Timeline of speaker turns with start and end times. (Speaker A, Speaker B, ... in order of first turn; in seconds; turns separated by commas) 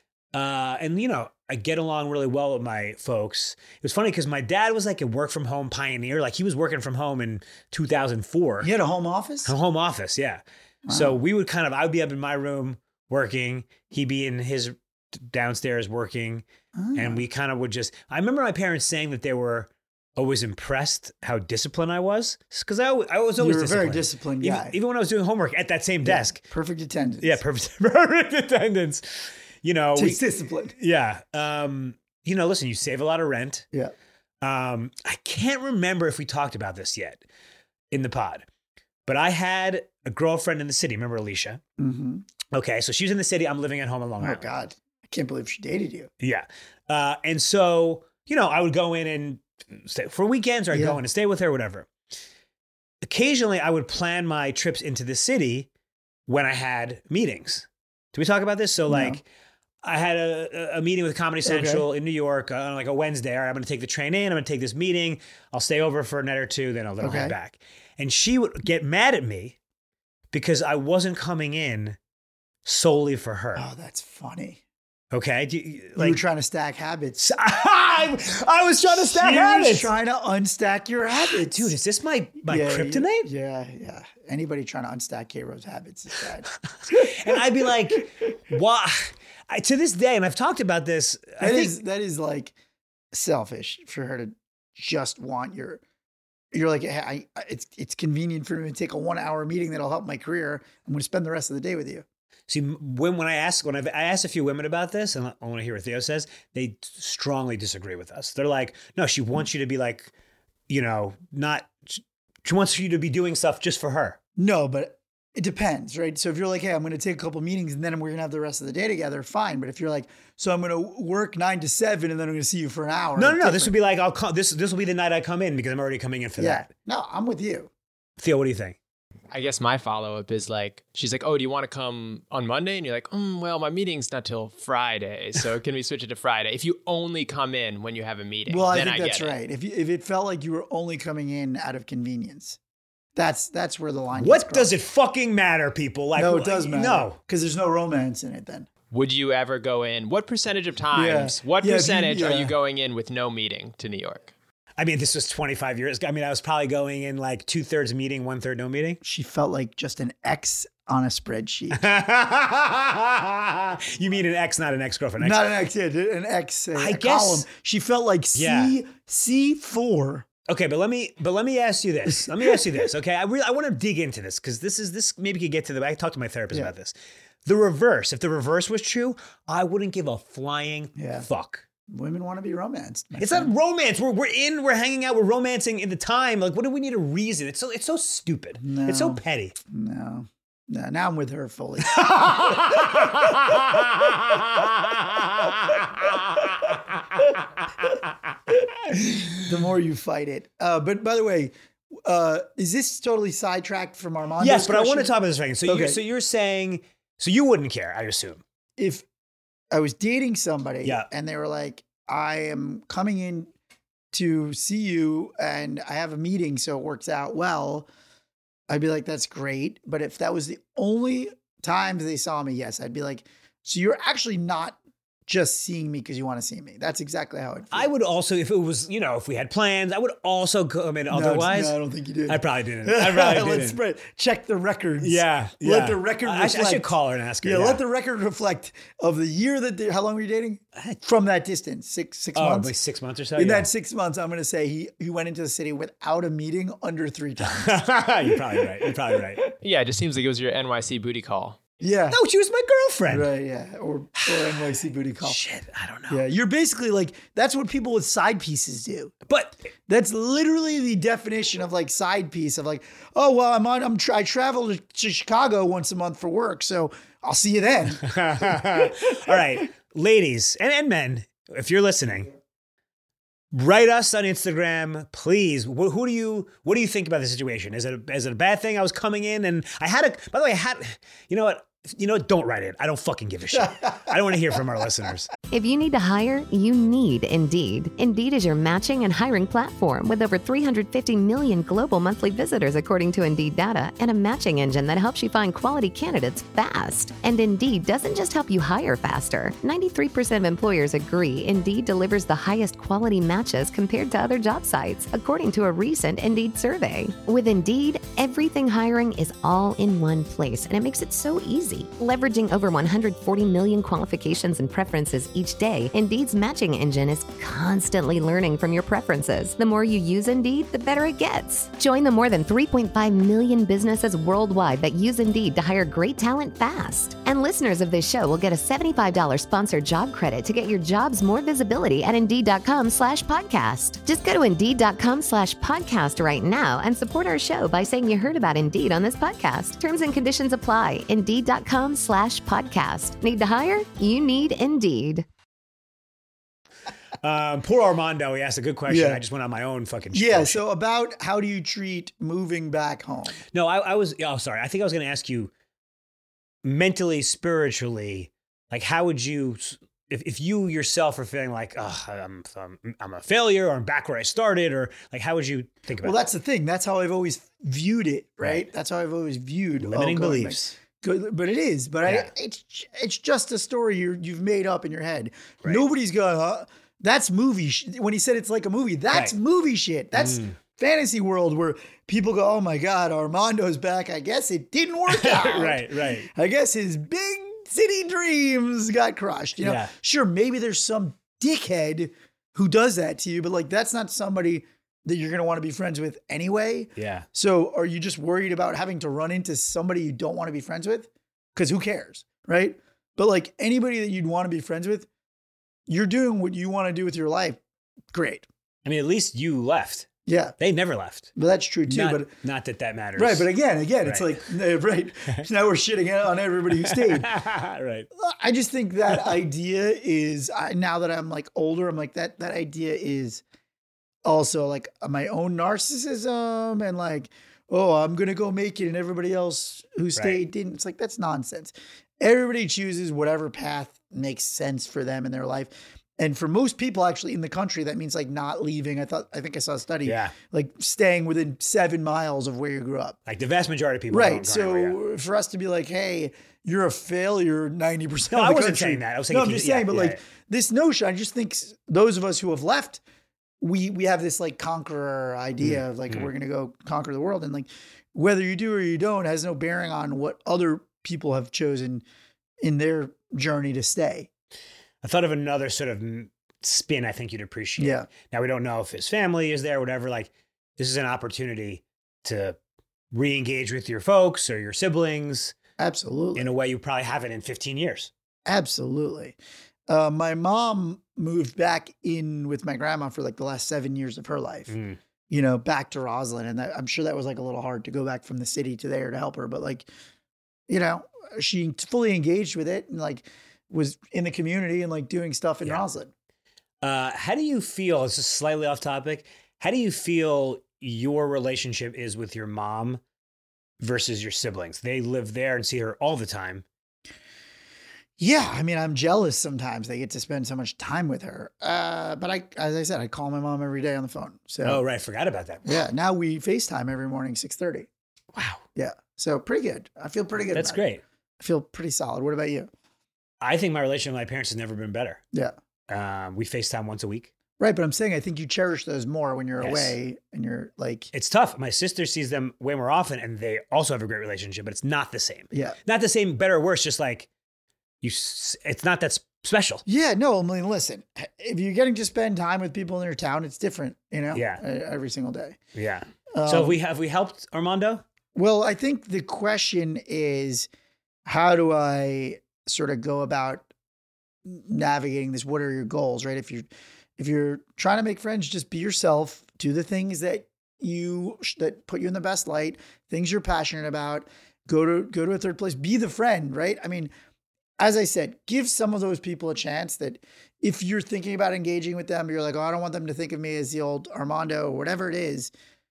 Speaker A: 0.3-8.7, Speaker B: 8.6-9.5, Speaker A: 9.4-26.4, Speaker B: 10.8-11.2, Speaker B: 16.7-17.2, Speaker B: 23.4-24.8, Speaker B: 26.0-27.4, Speaker A: 27.2-30.2, Speaker B: 29.9-30.7, Speaker A: 30.7-33.6, Speaker A: 34.4-37.2, Speaker A: 37.9-38.4, Speaker A: 39.0-41.6, Speaker B: 41.8-42.2, Speaker A: 42.5-44.5, Speaker B: 44.2-46.1, Speaker A: 46.2-51.9, Speaker B: 50.7-51.0, Speaker A: 53.0-55.7, Speaker A: 56.3-59.2, Speaker B: 58.9-59.2, Speaker A: 59.8-69.6, Speaker B: 61.4-61.9, Speaker B: 67.0-67.3, Speaker A: 70.3-72.0, Speaker A: 72.6-73.7, Speaker B: 73.5-74.6, Speaker A: 75.1-76.2, Speaker B: 76.0-77.2, Speaker A: 77.2-79.9, Speaker B: 78.8-81.7, Speaker A: 81.4-83.3, Speaker B: 82.4-88.0, Speaker A: 86.8-91.8, Speaker B: 91.4-92.5, Speaker B: 93.1-95.8, Speaker B: 96.5-102.0, Speaker A: 102.5-110.1, Speaker A: 110.7-114.2, Speaker B: 114.4-123.7, Speaker A: 123.2-126.7, Speaker B: 126.4-127.7, Speaker A: 128.2-128.8, Speaker C: 129.3-139.4, Speaker B: 138.5-142.6, Speaker B: 143.1-144.7, Speaker A: 144.2-147.2, Speaker B: 146.1-148.7, Speaker C: 148.9-154.3, Speaker B: 150.9-152.5, Speaker A: 154.8-159.0, Speaker B: 159.0-161.8, Speaker A: 161.7-165.5, Speaker B: 165.2-170.3, Speaker A: 166.7-167.5, Speaker A: 168.3-168.8, Speaker A: 170.5-176.9, Speaker B: 172.2-172.6, Speaker A: 177.4-181.6, Speaker B: 180.9-181.2, Speaker B: 181.9-183.5, Speaker A: 183.2-189.6, Speaker B: 188.6-193.7, Speaker A: 191.9-196.8, Speaker B: 198.5-205.1, Speaker A: 204.4-208.4, Speaker B: 205.7-206.0, Speaker B: 208.8-209.1, Speaker B: 209.7-213.5, Speaker B: 214.1-217.9, Speaker B: 218.7-227.9, Speaker A: 227.7-233.8, Speaker B: 231.1-236.9, Speaker A: 235.0-237.8, Speaker B: 237.4-242.7, Speaker A: 242.3-243.7, Speaker B: 243.3-249.4, Speaker A: 247.4-249.4, Speaker C: 249.6-251.6, Speaker B: 251.8-252.2, Speaker A: 252.1-253.3, Speaker B: 253.1-255.4, Speaker A: 255.2-256.2, Speaker B: 256.1-259.1, Speaker A: 259.3-259.6, Speaker B: 259.9-269.4, Speaker A: 268.0-272.3, Speaker A: 273.5-285.3, Speaker B: 283.6-284.1, Speaker D: 285.5-345.2, Speaker A: 347.2-350.6, Speaker B: 348.9-349.2, Speaker B: 350.1-353.4, Speaker A: 353.5-355.5, Speaker A: 356.6-366.2, Speaker B: 366.0-405.1, Speaker A: 369.8-370.7, Speaker A: 372.0-372.3, Speaker A: 380.1-380.6, Speaker A: 385.1-386.3, Speaker A: 389.6-389.9, Speaker A: 397.0-397.2, Speaker B: 405.9-407.6, Speaker B: 408.1-408.5, Speaker A: 408.8-411.3, Speaker B: 410.2-410.6, Speaker B: 411.4-412.3, Speaker A: 411.9-413.5, Speaker B: 413.2-417.3, Speaker A: 414.0-414.4, Speaker A: 416.8-418.1, Speaker B: 418.1-423.4, Speaker B: 424.2-443.2, Speaker A: 430.1-430.4, Speaker A: 440.0-440.3, Speaker A: 443.3-445.0, Speaker B: 444.1-453.0, Speaker A: 448.3-450.2, Speaker B: 453.6-462.0, Speaker A: 455.6-456.3, Speaker B: 462.6-464.3, Speaker A: 465.0-472.6, Speaker B: 467.8-468.1, Speaker A: 473.1-475.6, Speaker B: 475.8-476.5, Speaker A: 476.4-478.1, Speaker B: 478.4-479.4, Speaker B: 479.9-484.7, Speaker A: 484.7-485.0, Speaker B: 485.3-489.9, Speaker B: 490.7-496.1, Speaker A: 496.8-503.0, Speaker A: 503.8-506.6, Speaker B: 508.2-514.8, Speaker A: 514.6-515.8, Speaker B: 515.6-517.9, Speaker A: 518.3-518.6, Speaker B: 518.7-520.8, Speaker A: 520.5-521.0, Speaker B: 521.4-522.7, Speaker A: 523.4-525.2, Speaker A: 525.9-527.3, Speaker B: 527.6-531.1, Speaker A: 529.6-529.9, Speaker A: 531.1-537.3, Speaker B: 535.5-535.8, Speaker A: 538.0-539.8, Speaker B: 539.9-545.6, Speaker A: 544.3-544.6, Speaker A: 545.7-548.0, Speaker B: 546.3-546.8, Speaker B: 548.3-550.7, Speaker B: 551.2-553.7, Speaker B: 554.4-567.1, Speaker B: 567.8-575.5